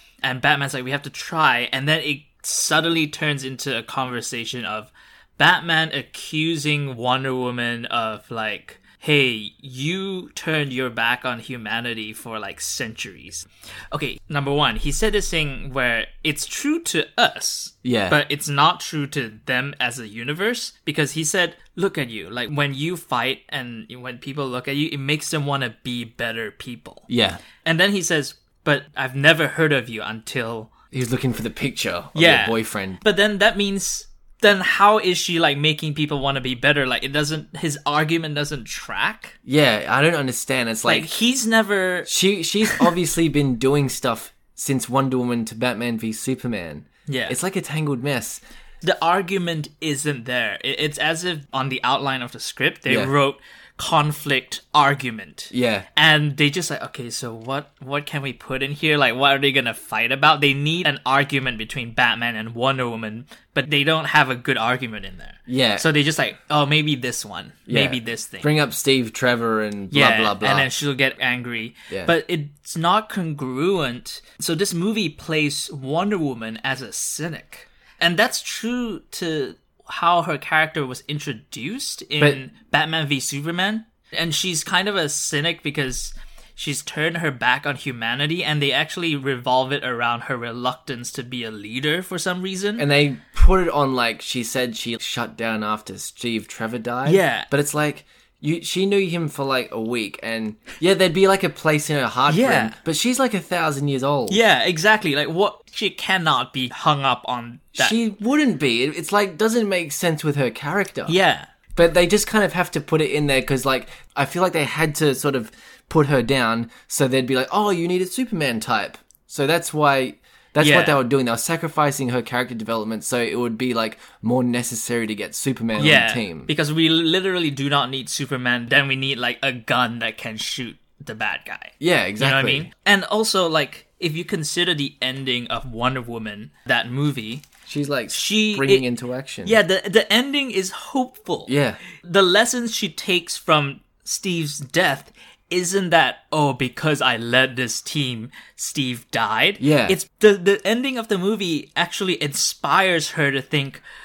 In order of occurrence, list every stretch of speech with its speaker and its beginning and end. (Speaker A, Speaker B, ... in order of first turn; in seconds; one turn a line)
Speaker A: 0.2-30.7
Speaker B: 17.8-18.2
Speaker B: 27.1-27.4
Speaker B: 30.9-33.0
Speaker A: 32.1-39.4
Speaker B: 39.5-41.1
Speaker A: 40.9-42.1
Speaker B: 42.1-48.4
Speaker A: 47.1-47.4
Speaker A: 48.8-68.5
Speaker B: 52.9-53.1
Speaker B: 55.5-55.9
Speaker B: 65.5-65.8
Speaker B: 67.7-70.7
Speaker A: 69.9-92.9
Speaker B: 92.8-104.4
Speaker A: 97.0-97.5
Speaker A: 102.3-102.8
Speaker A: 104.3-108.0
Speaker B: 107.8-111.2
Speaker A: 111.1-111.5
Speaker B: 111.8-126.5
Speaker A: 120.6-121.0
Speaker A: 125.8-137.4
Speaker B: 131.8-132.7
Speaker B: 137.7-139.6
Speaker A: 138.1-138.9
Speaker A: 139.4-153.8
Speaker B: 141.5-141.8
Speaker B: 149.6-150.0